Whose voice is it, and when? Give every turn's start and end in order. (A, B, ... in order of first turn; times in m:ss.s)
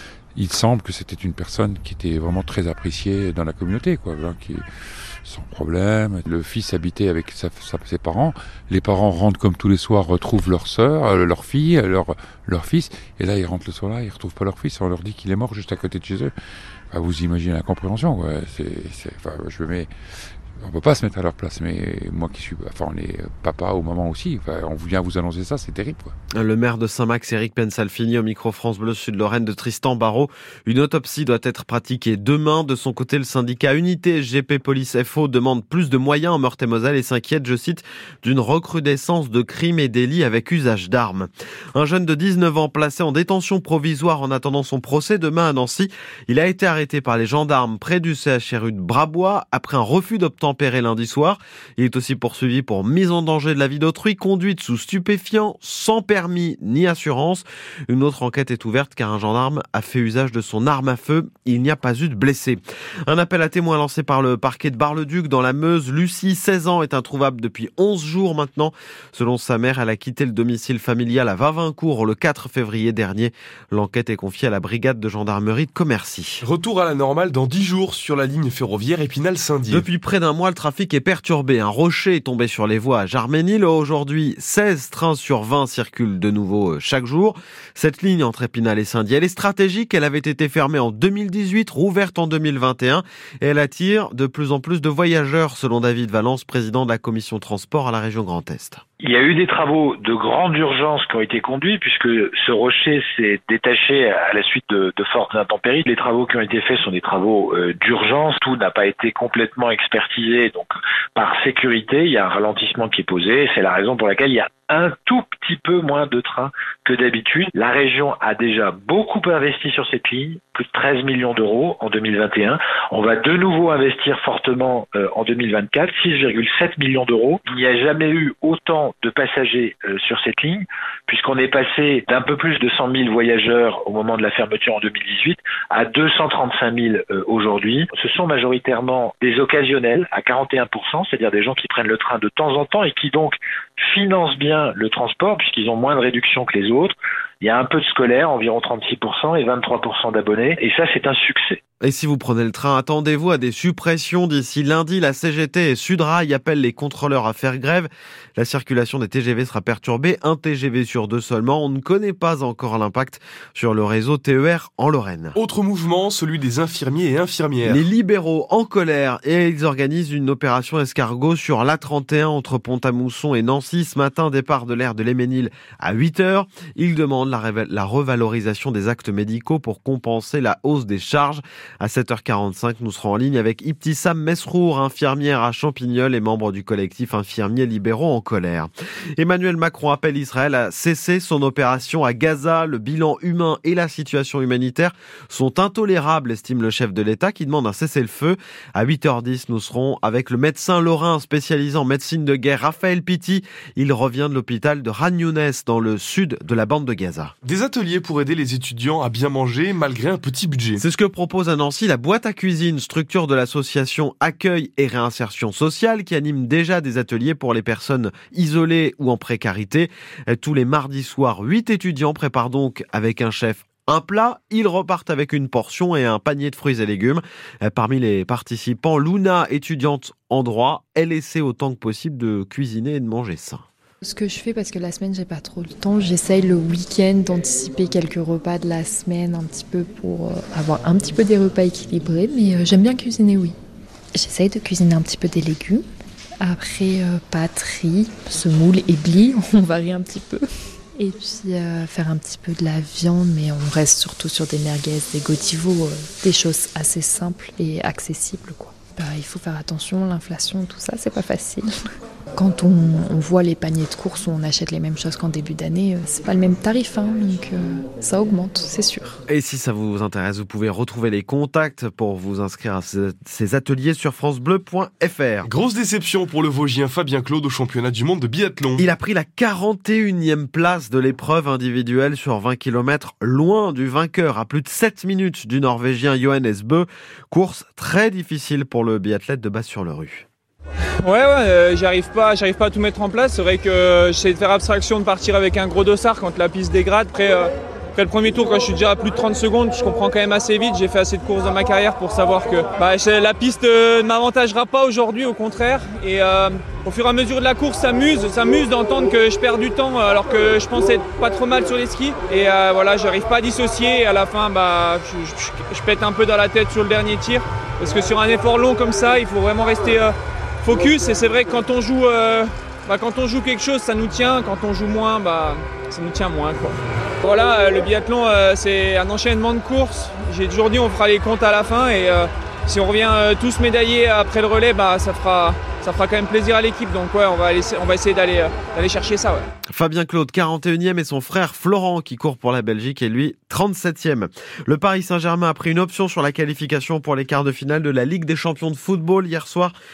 0:00.3-0:04.6 A
0:05.2-0:16.3 A
0:16.9-0:19.9 A
0:20.6-0:26.1 A
0:26.4-1:16.4 B
1:16.4-1:19.8 C
1:19.7-1:38.8 B
1:39.0-2:31.6 D
2:31.8-2:45.4 B
2:45.4-2:47.8 C
2:47.6-3:27.3 B
3:27.4-3:30.8 C
3:30.8-3:53.6 B
3:54.0-4:03.6 E
4:04.1-4:05.8 E
4:06.4-4:10.4 E
4:11.0-4:21.7 E
4:22.3-4:29.2 E
4:29.3-4:35.5 B
4:35.4-4:38.8 C
4:38.8-4:50.2 B
4:51.0-5:39.5 F
5:39.7-5:49.7 B